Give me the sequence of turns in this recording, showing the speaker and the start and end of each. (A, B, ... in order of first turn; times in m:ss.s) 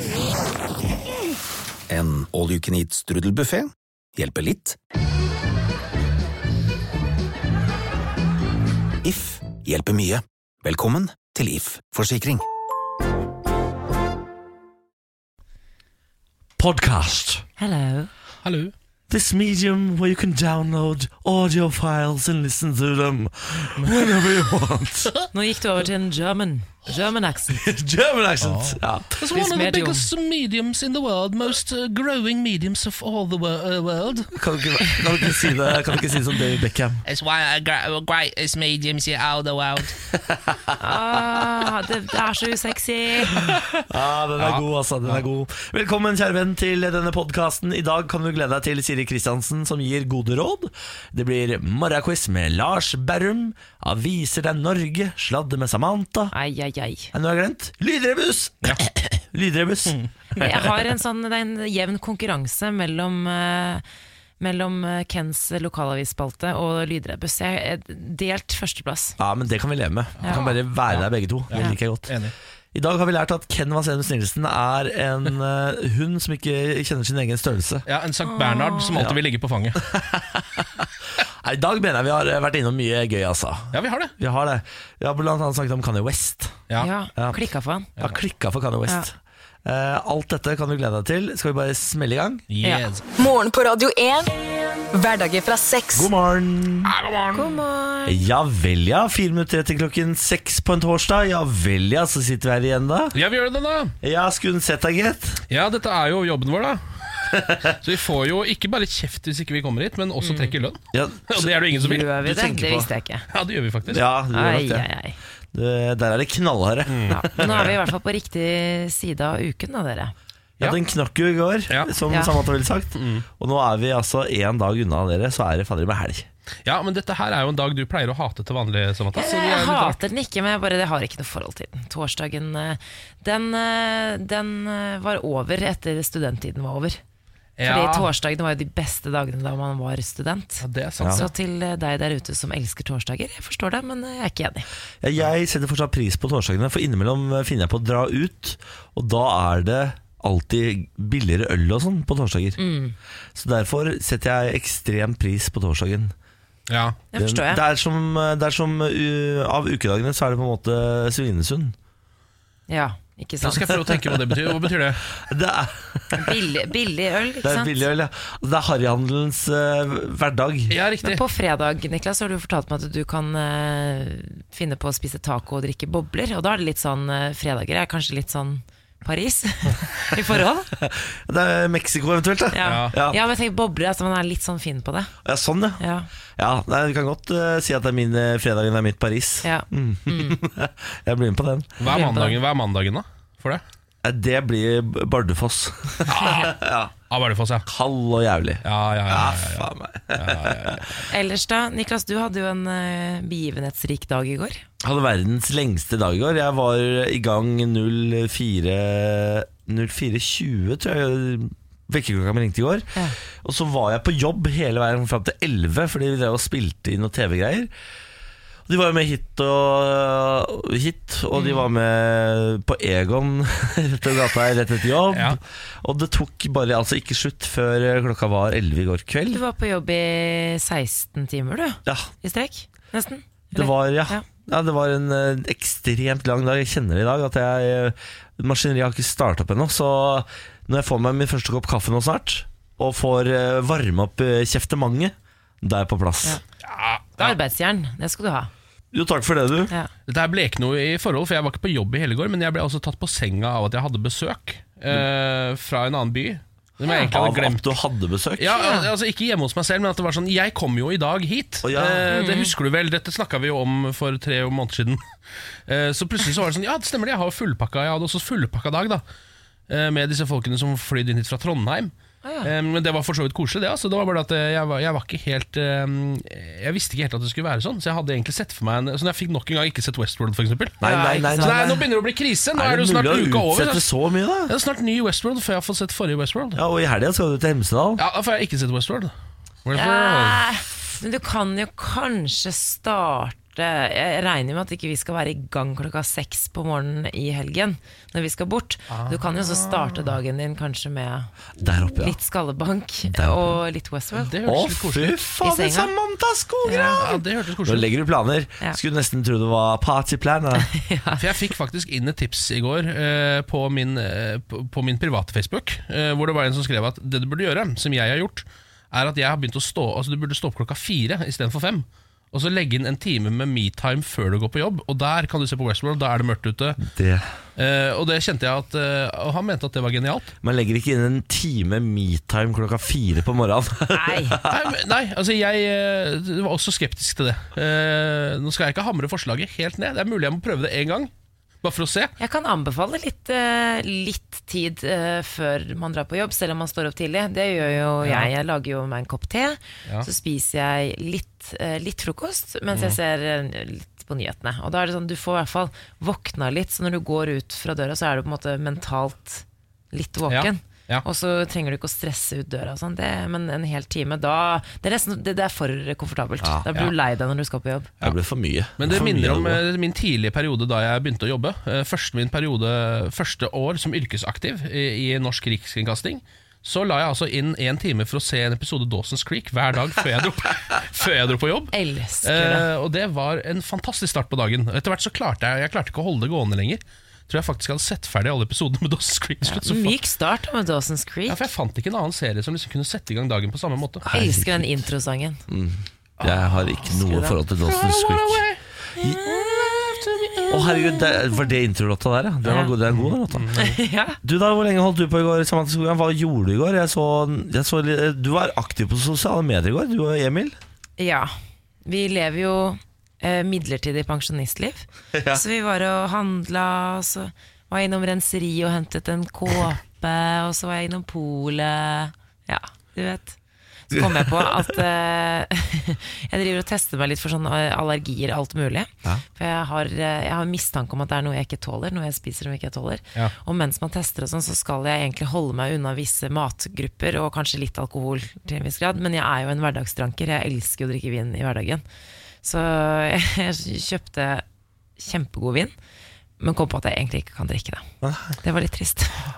0:01.9-0:04.8 A
0:09.0-0:12.4 A
0:16.6-0:17.4 B
0:17.6-0:18.1 C
0:18.4-0:18.7 D
0:19.1-0:25.1 B
0:23.8-0:24.1 D
0:25.3-0:27.6 C
0:27.5-0:29.2 B
0:28.4-0:34.4 D
0:29.3-0:30.1 C
0:34.3-0:37.0 B
0:37.0-0:40.0 D
0:40.3-0:40.7 B
0:40.8-0:43.6 C
0:43.5-0:43.8 D
0:43.9-0:56.3 B
0:44.4-0:45.2 D
0:56.3-0:57.1 C
0:57.1-0:58.8 B
0:59.3-1:00.4 B
1:00.0-1:00.4 D
1:00.4-1:03.8 C
1:04.4-1:09.2 C
1:09.2-1:12.1 B
1:10.2-1:12.3 D
1:12.7-1:17.9 B
1:17.9-1:19.8 D
1:18.2-1:19.0 C
1:19.8-1:20.8 B
1:21.4-1:26.6 B
1:23.7-1:24.1 D
1:26.8-1:27.9 C
1:28.0-1:32.4 B
1:32.5-1:33.0 D
1:33.2-1:34.3 E
1:34.9-1:36.1 E
1:35.9-1:36.9 B
1:36.8-1:37.6 D
1:37.3-1:38.2 C
1:38.0-1:43.2 B
1:43.1-1:43.9 D
1:44.0-1:45.4 B
1:45.5-1:52.1 D
1:47.3-1:47.7 B
1:50.2-1:50.5 C
1:50.9-1:52.9 B
1:51.8-1:53.2 C
1:53.3-1:54.0 D
1:53.9-1:54.8 B
1:54.3-1:55.2 C
1:55.5-1:57.7 B
1:56.9-1:57.7 D
1:57.1-2:00.1 C
2:00.6-2:06.3 B
2:02.9-2:03.2 D
2:06.6-2:10.0 D
2:09.1-2:17.0 C
2:17.6-2:18.1 D
2:17.6-2:24.7 C
2:20.6-2:21.3 D
2:25.0-2:32.6 B
2:32.6-2:32.9 C
2:33.3-2:36.1 B
2:36.7-2:37.0 D
2:37.1-2:37.6 C
2:37.2-2:41.7 B
2:42.7-2:43.7 C
2:43.4-2:45.1 D
2:43.7-2:46.4 B
2:46.1-2:47.8 C
2:47.4-2:50.8 B
2:50.7-2:51.2 D
2:51.0-3:00.7 C
3:00.7-3:03.2 B
3:02.5-3:05.1 C
3:02.6-3:02.9 D
3:05.2-3:05.8 B
3:05.8-3:06.1 C
3:06.4-3:11.8 B
3:09.4-3:10.4 C
3:11.8-3:13.6 D
3:11.8-3:12.4 C
3:14.0-3:16.9 B
3:16.1-3:16.6 D
3:17.1-3:17.6 D
3:17.6-3:20.8 B
3:18.6-3:20.8 D
3:21.1-3:24.6 C
3:24.8-3:32.9 B
3:33.4-3:37.7 B
3:38.7-3:49.4 B
3:41.3-3:41.6 C
3:45.1-3:45.4 D
3:49.3-3:54.2 C
3:53.5-4:06.4 B
4:06.6-4:07.4 D
4:07.2-4:08.5 C
4:08.9-4:09.7 B
4:10.1-4:17.7 D
4:17.1-4:18.6 B
4:18.4-4:25.0 D
4:18.6-4:18.9 C
4:21.6-4:22.1 B
4:22.1-4:22.5 C
4:25.7-4:29.0 D
4:29.7-4:43.9 D
4:32.2-4:32.5 C
4:40.8-4:41.9 B
4:40.8-4:41.8 C
4:42.5-4:44.5 B
4:44.5-4:46.6 D
4:46.5-4:48.0 B
4:48.0-4:49.1 D
4:49.6-4:50.4 D
4:49.7-5:01.3 C
4:58.9-5:00.1 D
5:01.6-5:02.2 B
5:01.8-5:04.3 C
5:03.1-5:03.6 B
5:04.2-5:05.2 D
5:04.4-5:10.7 B
5:05.4-5:05.9 C
5:06.6-5:07.1 C
5:06.7-5:07.9 D
5:10.7-5:11.2 C
5:11.2-5:26.8 D
5:26.8-5:27.2 B
5:27.6-5:30.3 D
5:30.4-5:34.6 B
5:33.9-5:34.4 C
5:34.5-5:41.1 D
5:41.6-5:42.1 D
5:42.2-6:07.9 C
5:48.0-5:48.3 D
5:52.7-5:53.0 D
6:00.3-6:01.0 D
6:08.0-6:09.6 B
6:08.8-6:30.0 D
6:21.7-6:22.7 C
6:29.4-6:31.4 C
6:31.3-6:34.0 D
6:34.0-6:34.6 B
6:34.1-6:35.4 C
6:35.5-6:38.4 B
6:36.2-6:38.6 D
6:37.0-6:37.3 C
6:39.0-6:39.9 C
6:39.2-6:40.7 D
6:40.5-6:43.6 B
6:40.7-6:41.1 C
6:42.4-6:42.7 C
6:43.0-6:43.8 D
6:43.6-6:44.2 C
6:44.2-6:50.6 B
6:51.0-6:51.3 C
6:51.8-7:03.4 C
6:55.1-6:55.4 B
7:03.9-7:21.8 C
7:03.9-7:04.3 B
7:22.4-7:24.4 C
7:25.0-7:25.7 C
7:26.4-7:27.8 C
7:28.0-7:28.4 B
7:28.4-7:29.3 C